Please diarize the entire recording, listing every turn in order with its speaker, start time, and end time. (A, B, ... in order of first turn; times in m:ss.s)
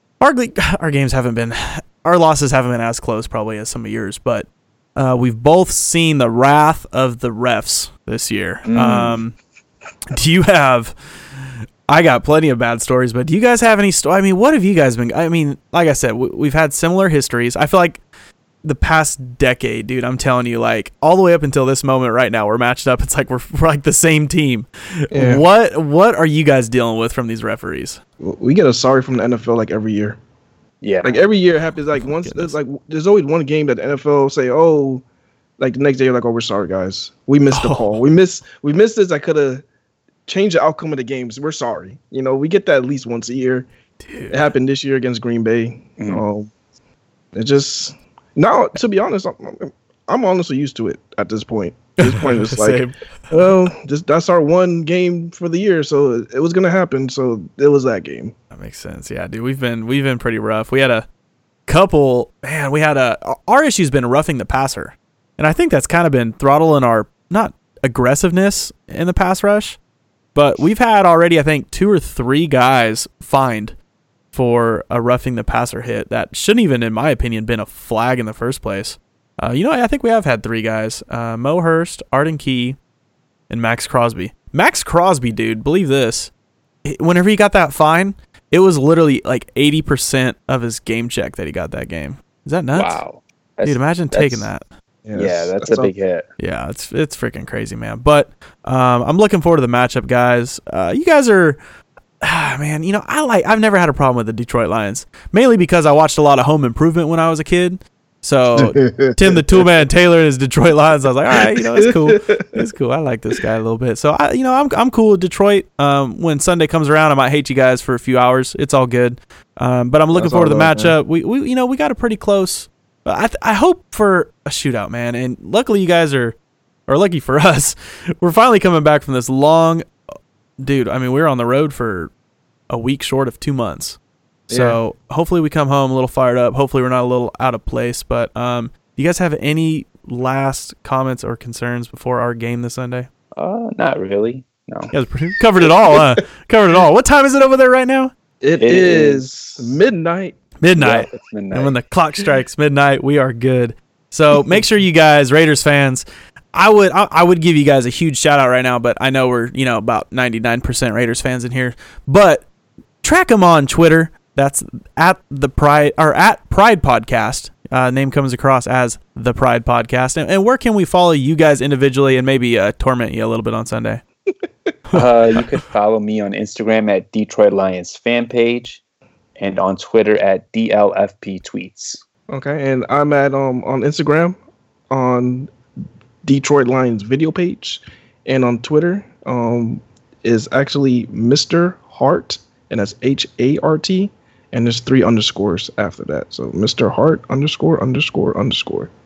0:00.2-0:09.4 A
0:08.7-0:09.2 B
0:10.1-0:18.0 A
0:18.6-0:28.0 A
0:25.1-0:25.4 C
0:28.2-0:30.2 C
0:30.8-0:31.2 B
0:31.0-0:35.0 C
0:32.0-0:32.6 A
0:35.6-0:39.6 C
0:37.5-0:38.0 A
0:40.3-0:43.7 C
0:44.0-0:44.5 A
0:44.3-0:46.5 C
0:46.0-0:46.2 B
0:47.3-0:58.3 C
0:52.0-0:53.0 A
0:58.5-1:01.1 A
1:01.7-1:09.8 A
1:10.4-1:13.8 A
1:14.3-1:22.8 A
1:23.5-1:26.3 A
1:26.8-1:33.0 A
1:32.8-1:34.5 B
1:33.6-1:34.6 A
1:35.0-1:35.9 C
1:35.1-1:36.3 B
1:36.4-1:41.6 A
1:42.2-2:06.4 A
1:48.6-1:49.6 C
1:51.3-1:52.6 C
2:00.1-2:01.0 C
2:06.9-2:09.9 A
2:10.6-2:12.1 A
2:12.7-2:23.1 A
2:14.5-2:14.8 C
2:23.4-2:24.9 B
2:24.9-2:28.1 A
2:28.4-2:30.4 C
2:28.6-2:29.6 B
2:30.6-2:42.5 A
2:30.8-2:31.8 B
2:43.0-2:54.0 A
2:54.9-2:58.8 B
2:59.4-3:02.0 B
3:02.3-3:04.4 C
3:04.9-3:05.5 C
3:06.2-3:18.9 C